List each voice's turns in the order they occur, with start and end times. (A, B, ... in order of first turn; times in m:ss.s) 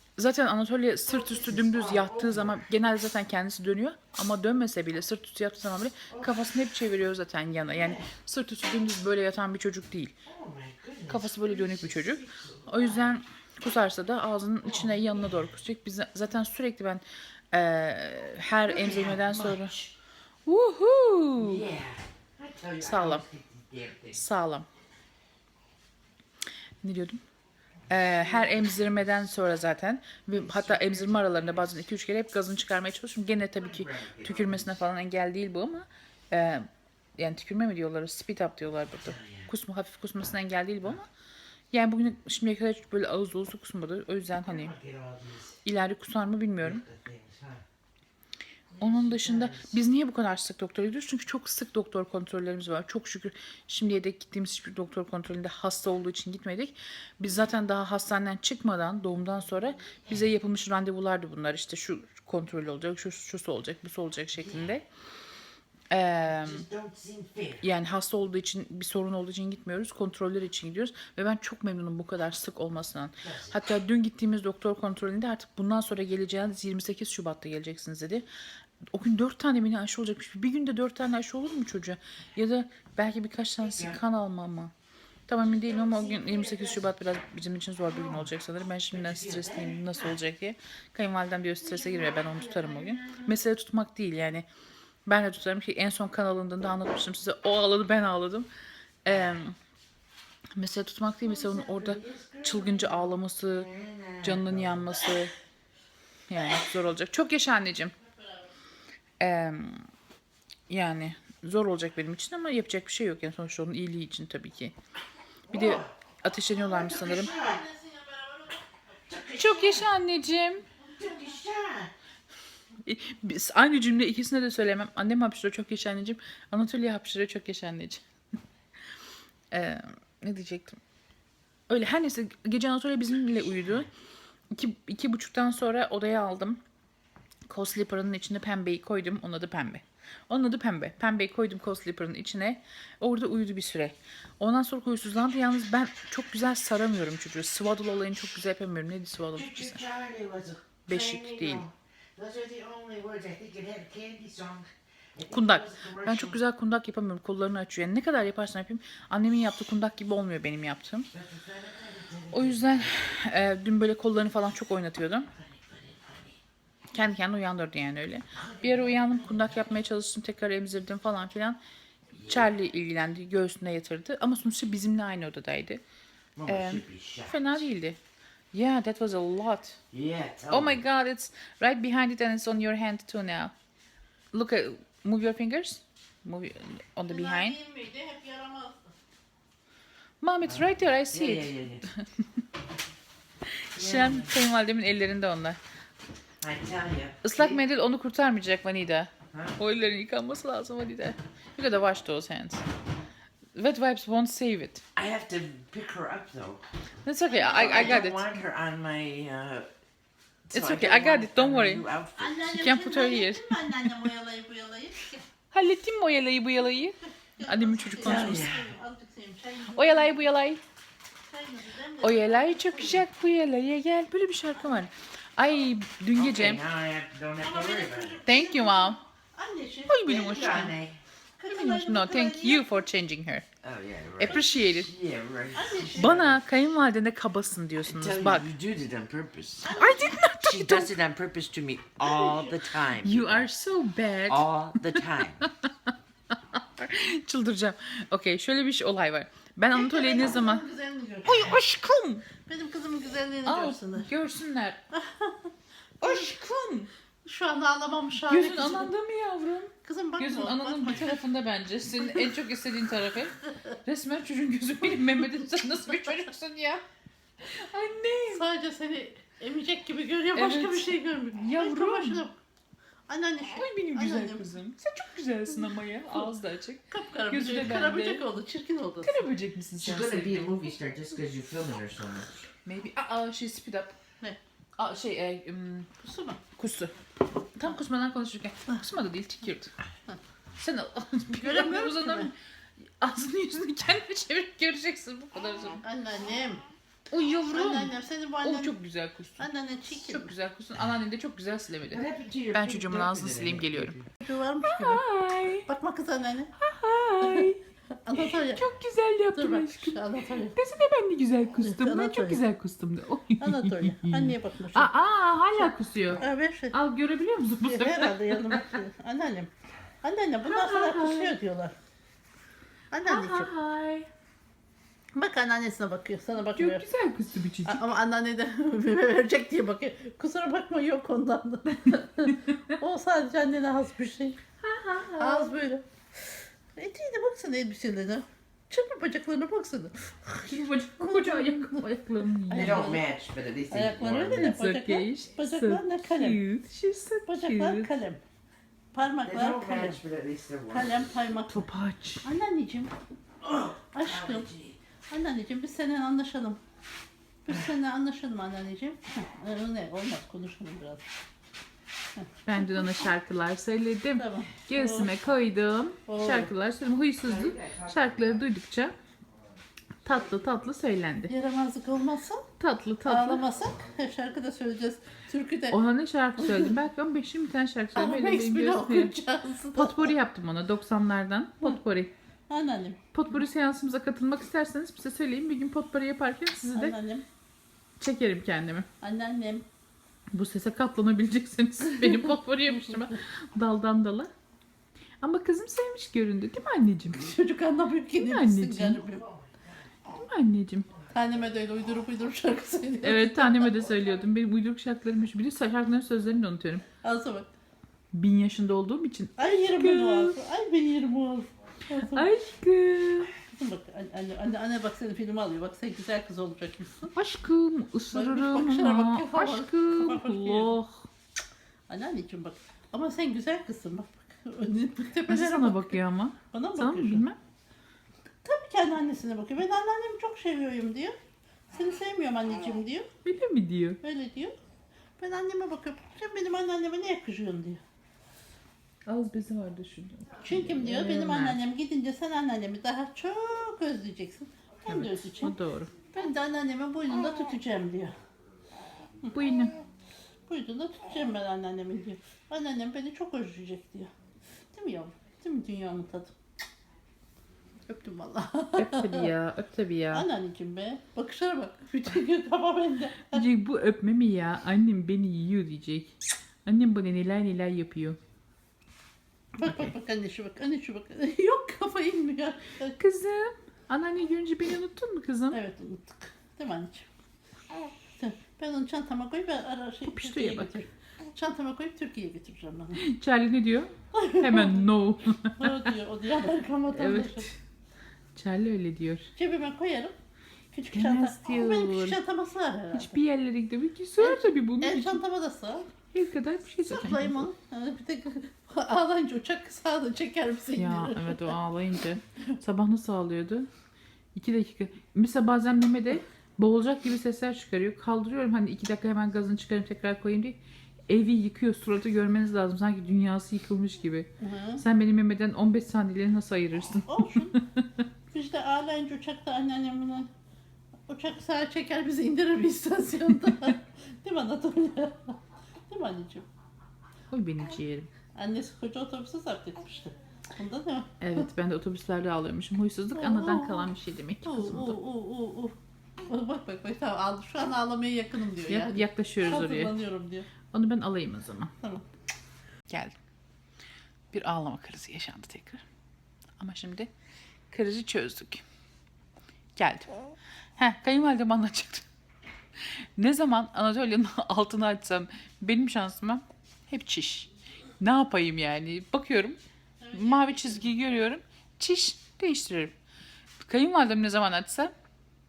0:00.2-0:10.1 A
0:01.1-0:02.6 B
0:07.7-0:08.1 B
0:10.2-0:13.2 B
0:11.1-0:19.8 A
0:14.6-0:15.3 B
0:18.6-0:19.9 B
0:20.5-0:21.6 A
0:21.4-0:24.2 B
0:22.8-0:23.2 A
0:24.1-0:24.7 A
0:26.8-0:27.2 A
0:27.9-0:41.1 A
0:28.0-0:28.9 B
0:30.3-0:31.8 B
0:33.6-0:34.8 B
0:39.0-0:39.5 B
0:41.7-0:44.8 A
0:44.4-0:45.6 B
0:45.6-0:46.8 A
0:46.6-0:47.6 B
0:48.7-0:49.7 B
0:48.8-1:04.8 A
0:59.8-1:00.2 B
1:04.4-1:04.7 B
1:05.9-1:06.7 A
1:06.3-1:07.6 B
1:07.6-1:18.3 A
1:13.2-1:13.6 B
1:18.9-1:24.7 A
1:23.6-1:24.0 B
1:25.3-1:34.5 A
1:25.4-1:26.9 B
1:27.9-1:28.3 B
1:28.9-1:30.2 B
1:31.6-1:33.3 B
1:35.1-1:38.5 A
1:39.0-1:39.6 A
1:39.1-1:39.4 B
1:40.6-1:43.7 A
1:41.2-1:45.1 B
1:44.2-1:45.3 A
1:46.3-1:48.0 A
1:49.2-1:49.9 A
1:50.7-1:54.7 A
1:55.5-1:55.9 B
1:55.5-1:57.4 A
1:56.5-1:57.6 B
1:56.9-1:58.6 C
1:59.1-1:59.9 B
1:59.4-2:00.7 A
2:00.9-2:01.9 B
2:02.8-2:08.0 A
2:09.5-2:10.8 A
2:11.7-2:13.9 A
2:14.5-2:16.6 A
2:17.5-2:29.8 A
2:29.3-2:36.4 B
2:30.9-2:31.7 A
2:35.3-2:41.1 A
2:41.1-2:42.9 B
2:42.3-2:45.3 A
2:45.3-2:46.4 B
2:46.9-2:51.6 A
2:48.3-2:49.7 B
2:52.1-2:52.5 B
2:52.2-2:55.8 A
2:56.4-2:57.6 B
2:56.5-2:58.0 A
2:58.5-2:59.8 A
2:59.9-3:00.8 B
3:00.5-3:03.5 A
3:04.3-3:07.6 A
3:07.1-3:08.9 C
3:10.2-3:12.1 A
3:10.5-3:11.9 B
3:13.7-3:15.6 A
3:13.8-3:14.3 B
3:16.4-3:17.6 B
3:17.2-3:22.6 A
3:19.3-3:19.6 B
3:23.6-3:24.8 A
3:25.0-3:26.6 B
3:27.0-3:28.3 A
3:27.3-3:28.0 C
3:27.3-3:29.7 B
3:30.5-3:32.5 B
3:30.5-3:31.9 A
3:32.2-3:35.2 C
3:32.5-3:34.1 A
3:35.5-3:38.5 A
3:37.4-3:40.2 C
3:38.0-3:38.7 B
3:39.8-3:40.6 A
3:41.3-3:43.0 C
3:42.0-3:46.6 A
3:46.2-3:48.2 B
3:47.4-3:50.4 C
3:48.3-3:49.0 A
3:49.9-3:50.8 A
3:50.0-3:51.0 B
3:51.4-3:52.9 C
3:51.5-3:53.5 A
3:53.6-3:56.3 B
3:54.2-3:54.9 A
3:55.6-3:56.4 C
3:56.0-3:58.5 A
3:57.9-3:59.8 B
3:59.7-4:00.2 C
3:59.8-4:01.0 A
4:00.4-4:03.5 B
4:02.0-4:02.6 C
4:03.0-4:05.5 A
4:04.3-4:05.5 B
4:06.3-4:10.6 A
4:09.8-4:11.6 C
4:11.2-4:12.3 A
4:12.4-4:14.1 C
4:13.4-4:14.8 A
4:14.9-4:15.5 C
4:16.0-4:16.9 A
4:16.0-4:16.3 C
4:17.2-4:18.9 C
4:18.2-4:26.8 A
4:19.8-4:21.2 C
4:27.5-4:28.5 A
4:28.3-4:32.4 C
4:30.3-4:32.2 A
4:33.1-4:34.5 C
4:33.6-4:38.3 A
4:36.9-4:39.3 C
4:39.0-4:40.6 A
4:39.8-4:42.5 B
4:42.6-4:44.0 A
4:44.8-4:45.9 A
4:46.0-4:46.4 C
4:46.6-4:47.0 A
4:47.6-4:49.7 A
4:50.6-4:52.4 A
4:51.4-4:52.3 C
4:53.0-4:55.8 A
4:55.8-4:56.6 C
4:57.1-5:04.0 A
4:57.5-4:58.8 C
4:59.4-5:00.3 C
5:01.9-5:04.1 B
5:04.2-5:05.0 C
5:04.6-5:05.7 A
5:05.7-5:06.5 C
5:06.6-5:07.6 A
5:08.0-5:08.6 C
5:08.2-5:10.0 A
5:09.3-5:10.6 C
5:10.6-5:18.7 A
5:11.6-5:12.4 C
5:13.4-5:14.9 C
5:15.6-5:16.8 C
5:17.6-5:19.5 C
5:20.0-5:21.7 C
5:20.4-5:21.4 A
5:22.9-5:23.5 C
5:23.0-5:24.1 A
5:25.2-5:26.9 C
5:26.6-5:27.8 A
5:27.7-5:34.4 C
5:34.6-5:35.5 A
5:35.2-5:41.9 C
5:40.4-5:42.9 A
5:42.5-5:43.1 C
5:42.5-5:44.6 B
5:43.7-5:46.4 C
5:44.4-5:47.9 A
5:47.3-5:48.2 C
5:48.9-5:50.0 C
5:49.2-5:51.1 B
5:50.7-5:51.6 C
5:51.5-5:52.3 A
5:52.2-5:52.9 C
5:53.4-5:54.8 B
5:53.9-5:54.5 C
5:55.1-5:56.6 C
5:57.4-6:01.0 C
6:02.2-6:02.9 C
6:02.4-6:09.0 A
6:04.2-6:05.1 C
6:06.1-6:06.5 C
6:07.2-6:08.4 B
6:10.0-6:11.4 A
6:11.3-6:12.5 C
6:12.6-6:13.4 A
6:13.1-6:15.8 C
6:15.7-6:22.1 A
6:16.4-6:16.7 C
6:18.0-6:20.1 C
6:22.5-6:23.0 C
6:23.1-6:27.0 A
6:26.8-6:27.2 C
6:28.0-6:28.9 A
6:29.0-6:29.6 C
6:30.3-6:34.3 A
6:35.2-6:37.3 A
6:37.1-6:39.3 C
6:38.2-6:39.0 A
6:39.1-6:39.8 B
6:40.1-6:40.9 A
6:41.0-6:41.4 B
6:41.1-6:43.9 C
6:43.0-6:46.8 A
6:47.0-6:47.5 C
6:48.1-6:50.4 A
6:49.4-6:52.3 C
6:52.0-6:53.3 A
6:53.5-6:57.1 C
6:57.1-7:01.0 A
6:58.1-7:00.7 C
7:01.9-7:06.0 C
7:05.3-7:07.4 A
7:06.5-7:07.2 C
7:08.4-7:11.2 C
7:11.7-7:13.1 C
7:13.2-7:14.0 A
7:14.0-7:14.6 C
7:15.2-7:17.8 C
7:19.1-7:21.6 A
7:20.4-7:25.6 C
7:24.9-7:25.9 A
7:26.1-7:28.2 C
7:29.3-7:29.7 A
7:30.5-7:34.1 C
7:34.7-7:36.3 C
7:37.9-7:39.3 C
7:38.8-7:40.3 A
7:40.1-7:43.4 C
7:43.3-7:48.2 A
7:49.6-7:53.0 C
7:53.0-7:55.6 A
7:55.5-7:57.1 C
7:58.2-8:03.0 C
8:00.1-8:00.7 A
8:03.0-8:05.9 A
8:04.1-8:04.9 C
8:05.6-8:07.5 C
8:06.9-8:07.6 A
8:08.4-8:09.3 A
8:09.4-8:10.2 C
8:10.7-8:13.2 C
8:10.9-8:12.2 A
8:12.9-8:15.2 A
8:14.2-8:15.9 C
8:16.1-8:17.5 A
8:16.9-8:21.5 C
8:20.8-8:23.7 A
8:24.4-8:37.8 A
8:34.4-8:34.8 C
8:37.1-8:37.6 C
8:38.3-8:40.3 C
8:41.1-8:45.4 C
8:45.9-8:46.5 C
8:47.3-8:48.1 A
8:48.4-8:51.4 C
8:51.2-8:55.0 A
8:53.2-8:53.9 C
8:54.4-9:00.5 C
8:58.7-9:00.0 A
9:00.7-9:01.7 A
9:02.9-9:03.1 A
9:04.3-9:05.8 A
9:06.6-9:07.1 A
9:07.7-9:08.6 A
9:09.8-9:10.1 A
9:10.8-9:12.0 A
9:12.9-9:17.5 A
9:18.0-9:19.6 A
9:20.0-9:20.8 C
9:20.1-9:22.9 A
9:23.6-9:24.9 A